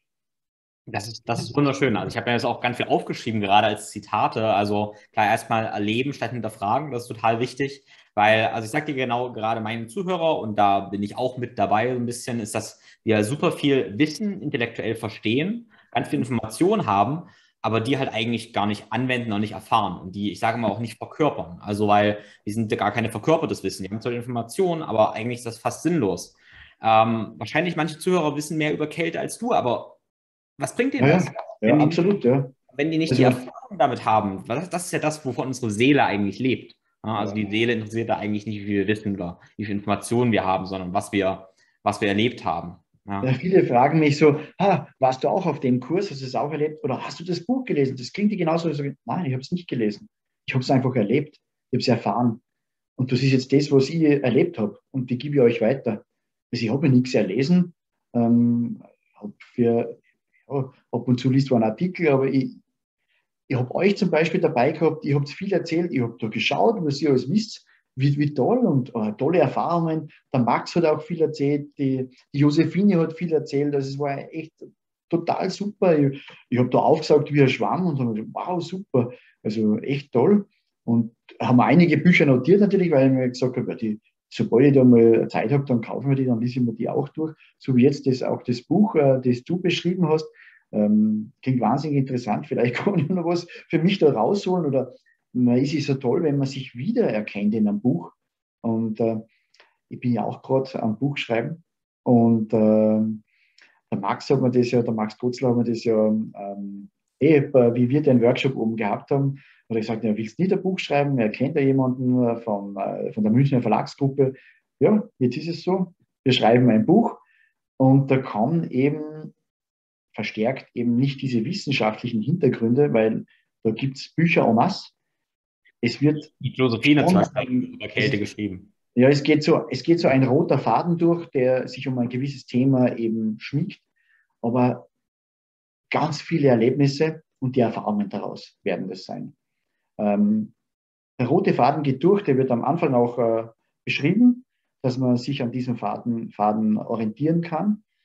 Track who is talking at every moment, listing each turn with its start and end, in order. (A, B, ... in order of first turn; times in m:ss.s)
0:00.9-0:30.0 A
0:30.6-0:32.0 A
0:31.0-0:32.6 B
0:32.7-0:43.3 A
0:33.1-0:33.4 B
0:37.2-0:37.4 B
0:43.2-0:52.4 B
0:53.0-1:02.6 B
1:03.5-1:39.3 B
1:39.9-1:43.2 B
1:43.9-1:57.2 B
1:57.8-1:59.3 B
2:00.2-2:04.9 B
2:05.8-2:06.3 B
2:06.4-2:08.7 A
2:07.0-2:08.2 B
2:09.0-2:13.8 B
2:14.4-2:14.9 B
2:15.9-2:19.3 B
2:20.0-2:20.5 B
2:21.2-2:27.8 B